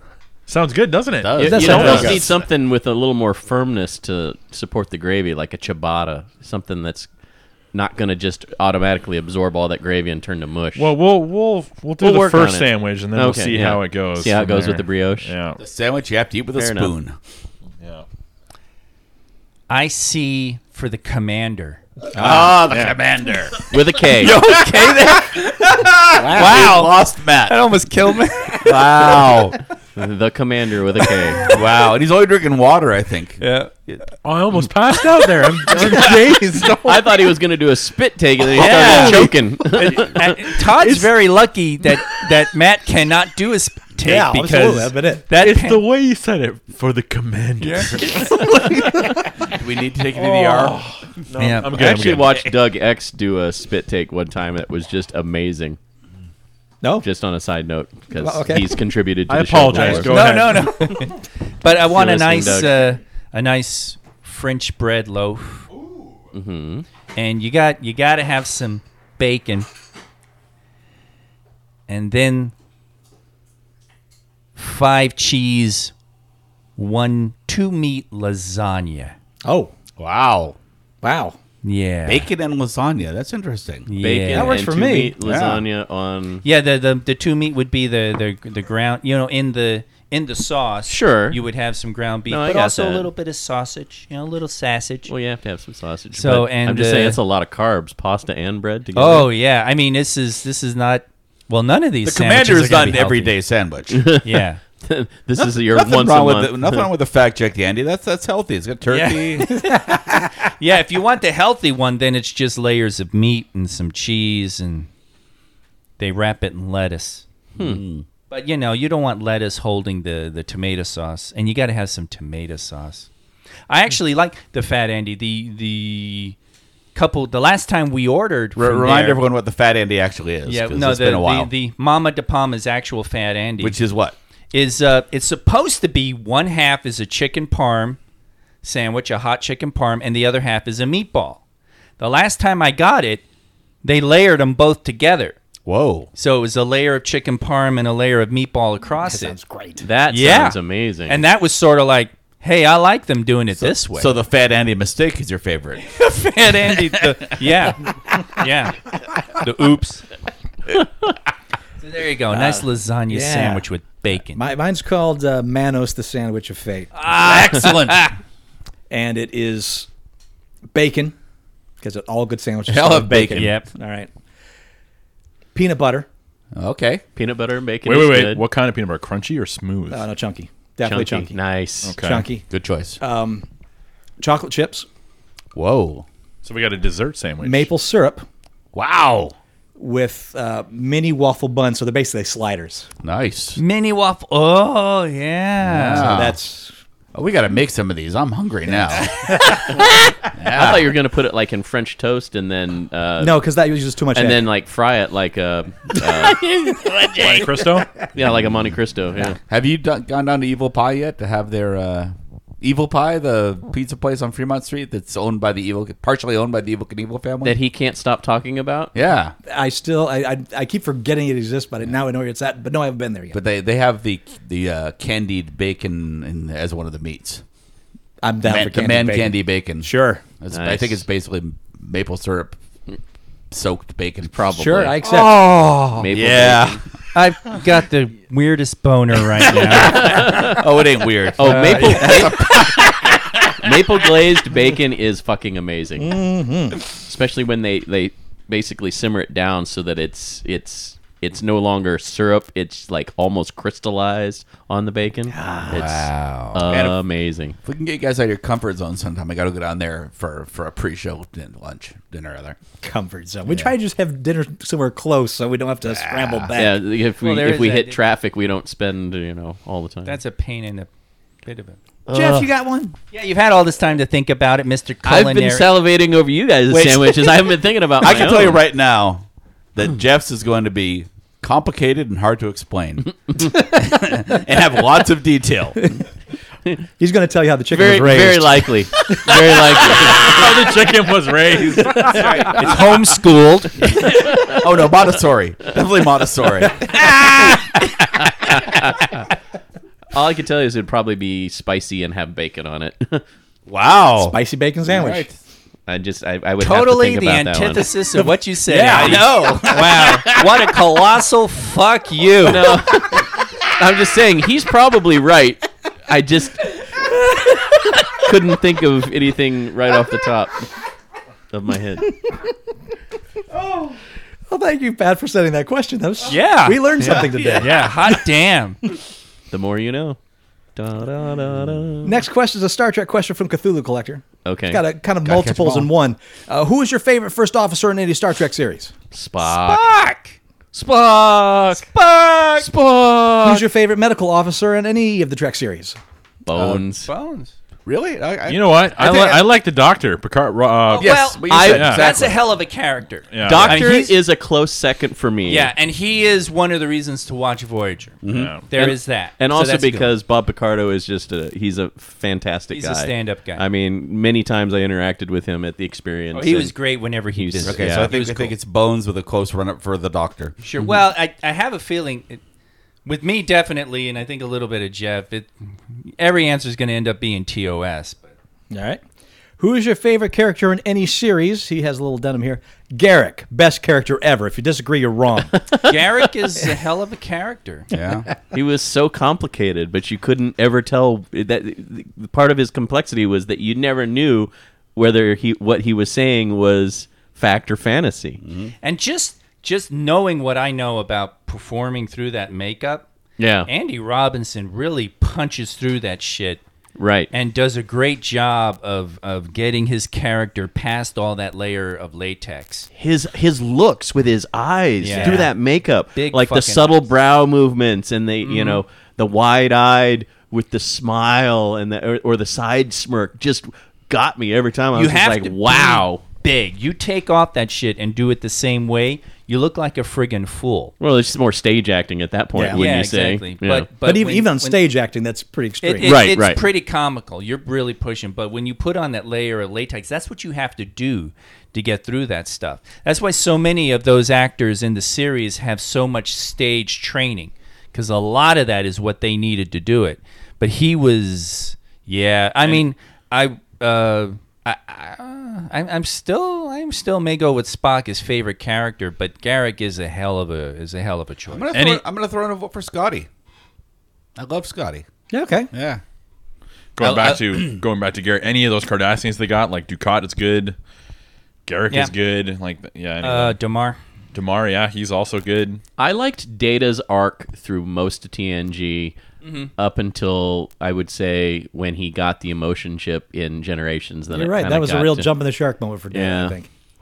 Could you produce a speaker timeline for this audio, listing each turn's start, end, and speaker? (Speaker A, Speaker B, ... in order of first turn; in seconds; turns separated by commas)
Speaker A: 0.5-2.3, Speaker B: 1.1-2.5, Speaker C: 1.4-7.1, Speaker D: 1.4-2.2, Speaker C: 7.7-10.9, Speaker A: 10.7-15.6, Speaker C: 12.0-15.3, Speaker B: 15.6-17.2, Speaker C: 16.6-16.9, Speaker E: 19.7-21.8, Speaker D: 22.1-22.7, Speaker B: 22.1-27.6, Speaker A: 22.7-22.9, Speaker C: 23.7-24.4, Speaker E: 26.2-29.1, Speaker B: 28.6-29.6, Speaker C: 29.9-31.5, Speaker B: 31.4-34.0, Speaker E: 33.4-33.7, Speaker A: 34.2-37.2, Speaker C: 36.8-40.3, Speaker E: 38.6-45.8, Speaker D: 38.6-39.3, Speaker A: 38.7-39.1, Speaker D: 44.0-45.2, Speaker A: 45.3-48.9, Speaker E: 47.6-48.3, Speaker D: 48.4-49.2, Speaker B: 49.5-50.8, Speaker A: 50.2-52.5, Speaker E: 51.4-51.7, Speaker C: 51.7-55.8, Speaker C: 57.0-60.1, Speaker D: 58.1-58.8, Speaker A: 59.3-60.9, Speaker E: 59.8-65.7, Speaker D: 60.3-60.7, Speaker C: 61.8-62.9, Speaker C: 66.3-66.8, Speaker E: 67.1-69.7, Speaker E: 71.9-72.5, Speaker E: 74.5-75.9, Speaker E: 76.8-79.2, Speaker D: 79.4-79.7, Speaker B: 80.0-80.5, Speaker D: 81.0-81.4, Speaker E: 81.6-82.3, Speaker B: 82.0-83.9, Speaker E: 83.8-84.6, Speaker C: 84.0-86.4, Speaker D: 84.3-85.2, Speaker B: 85.2-85.6, Speaker E: 86.4-95.1, Speaker C: 90.9-91.4, Speaker C: 92.3-93.1, Speaker C: 95.1-99.3, Speaker E: 96.1-97.2, Speaker E: 98.9-103.3, Speaker B: 102.0-104.2, Speaker C: 103.9-106.9, Speaker E: 104.2-104.6, Speaker B: 105.4-109.6, Speaker E: 108.9-114.9, Speaker D: 109.5-110.2, Speaker E: 116.0-117.2, Speaker C: 117.6-117.8, Speaker B: 117.6-118.0, Speaker E: 118.3-123.1, Speaker E: 123.7-126.3, Speaker E: 126.9-129.2, Speaker B: 128.6-131.5, Speaker E: 130.4-133.8, Speaker B: 133.6-134.2, Speaker E: 134.5-138.0, Speaker E: 138.6-141.4, Speaker E: 142.0-143.2, Speaker E: 143.8-145.4, Speaker B: 145.7-146.1, Speaker E: 146.1-149.4, Speaker D: 149.0-149.9, Speaker C: 149.8-151.2, Speaker E: 150.1-154.1, Speaker B: 153.6-155.9, Speaker E: 155.8-160.1, Speaker B: 156.7-157.3, Speaker E: 161.8-164.4, Speaker D: 163.1-163.6, Speaker D: 164.2-166.9, Speaker E: 166.9-168.2, Speaker B: 167.2-168.0, Speaker D: 168.9-169.9, Speaker D: 170.7-171.2, Speaker D: 171.8-174.1, Speaker B: 172.7-173.6, Speaker E: 173.3-173.7, Speaker D: 175.5-176.1, Speaker B: 176.6-177.0, Speaker C: 177.2-178.4, Speaker A: 177.8-180.0, Speaker D: 179.9-181.4, Speaker C: 180.8-181.9, Speaker A: 181.8-182.3, Speaker D: 182.0-182.4, Speaker B: 182.5-183.0, Speaker D: 183.0-183.4, Speaker D: 184.2-184.8, Speaker B: 185.5-186.1, Speaker A: 186.4-187.7, Speaker D: 187.4-188.2, Speaker B: 188.7-189.3, Speaker D: 189.8-192.9, Speaker B: 193.0-193.6, Speaker E: 193.6-196.1, Speaker B: 195.6-196.4, Speaker D: 196.0-196.8, Speaker B: 197.1-200.9, Speaker D: 198.9-199.6, Speaker C: 199.7-203.4, Speaker D: 203.2-204.4, Speaker C: 204.1-206.9, Speaker A: 207.2-208.1, Speaker C: 208.1-209.4, Speaker B: 209.5-217.6, Speaker C: 217.4-218.9, Speaker B: 218.9-219.3, Speaker D: 219.4-223.4, Speaker B: 223.3-227.4, Speaker D: 228.2-230.2, Speaker B: 228.4-232.6, Speaker C: 230.5-231.0, Speaker B: 233.5-236.8, Speaker C: 234.3-235.0, Speaker D: 234.5-235.5, Speaker C: 235.9-236.8, Speaker E: 237.1-240.5, Speaker B: 239.5-243.6, Speaker C: 239.7-240.6, Speaker C: 241.3-246.2, Speaker E: 241.5-242.2, Speaker D: 246.0-246.8, Speaker C: 246.9-257.6, Speaker D: 255.3-255.9, Speaker E: 255.9-256.6, Speaker B: 256.7-257.0, Speaker B: 257.6-262.6, Speaker D: 262.8-266.8, Speaker B: 263.5-263.7, Speaker B: 265.9-266.5, Speaker C: 266.5-270.2, Speaker E: 267.2-268.0, Speaker E: 270.1-270.9, Speaker E: 271.4-271.8, Speaker C: 272.1-272.5, Speaker D: 272.1-272.9, Speaker E: 273.1-275.7, Speaker C: 275.0-278.6, Speaker B: 276.7-285.8, Speaker D: 287.0-289.9, Speaker C: 287.7-290.7, Speaker A: 289.9-292.7, Speaker C: 292.0-292.7, Speaker E: 292.5-293.9, Speaker B: 293.8-297.6, Speaker C: 298.5-299.1, Speaker C: 300.1-303.2, Speaker B: 303.7-305.4, Speaker D: 304.2-305.2, Speaker C: 305.9-307.8, Speaker E: 306.6-312.8, Speaker B: 308.7-310.3, Speaker D: 308.7-309.2, Speaker C: 308.9-309.3, Speaker C: 312.4-316.9, Speaker C: 317.5-320.7, Speaker C: 321.5-322.1, Speaker D: 324.5-327.8, Speaker E: 326.3-328.8, Speaker C: 327.0-327.9, Speaker C: 329.5-330.2, Speaker C: 330.8-332.2, Speaker D: 332.0-338.9, Speaker C: 334.4-334.8, Speaker B: 335.2-335.9, Speaker C: 339.1-339.8, Speaker E: 339.4-340.4, Speaker C: 340.7-341.9, Speaker C: 342.5-343.6, Speaker D: 343.4-346.0, Speaker C: 346.4-347.1, Speaker B: 346.5-346.8, Speaker E: 347.0-347.5, Speaker B: 347.9-349.4, Speaker A: 348.5-352.1, Speaker E: 350.9-354.1, Speaker B: 350.9-352.4, Speaker C: 351.5-352.1, Speaker A: 353.3-354.0, Speaker C: 353.4-355.7, Speaker E: 355.4-358.1, Speaker B: 358.2-358.5, Speaker A: 358.3-358.6, Speaker E: 358.7-360.1, Speaker C: 358.7-366.7, Speaker E: 362.7-363.6, Speaker E: 366.3-368.5, Speaker C: 367.4-368.1, Speaker B: 367.6-370.6, Speaker E: 370.6-372.4, Speaker E: 373.1-378.3, Speaker D: 378.7-379.0, Speaker D: 379.6-385.8, Speaker E: 385.8-387.9, Speaker B: 387.9-388.3, Speaker C: 388.5-398.4, Speaker B: 398.4-398.7, Speaker E: 398.8-403.1, Speaker C: 403.4-403.7, Speaker E: 403.6-406.6, Speaker C: 407.0-407.3, Speaker E: 407.3-412.9, Speaker C: 412.9-426.2, Speaker E: 415.0-417.1, Speaker D: 415.1-415.5, Speaker E: 418.4-418.8, Speaker E: 424.9-430.9, Speaker C: 431.0-433.9, Speaker D: 432.5-432.9, Speaker E: 432.7-434.8, Speaker D: 434.0-436.2, Speaker E: 435.8-461.7, Speaker C: 436.0-436.6, Speaker B: 461.5-463.3, Speaker A: 461.7-462.0, Speaker B: 464.4-465.1, Speaker D: 465.3-465.7, Speaker B: 465.7-466.0, Speaker A: 467.0-470.8, Speaker B: 467.0-467.8, Speaker A: 471.6-473.6, Speaker E: 473.2-474.0, Speaker A: 474.3-475.8, Speaker C: 476.0-479.1, Speaker E: 479.4-479.7, Speaker C: 479.8-485.3, Speaker D: 484.3-486.7, Speaker C: 486.1-486.6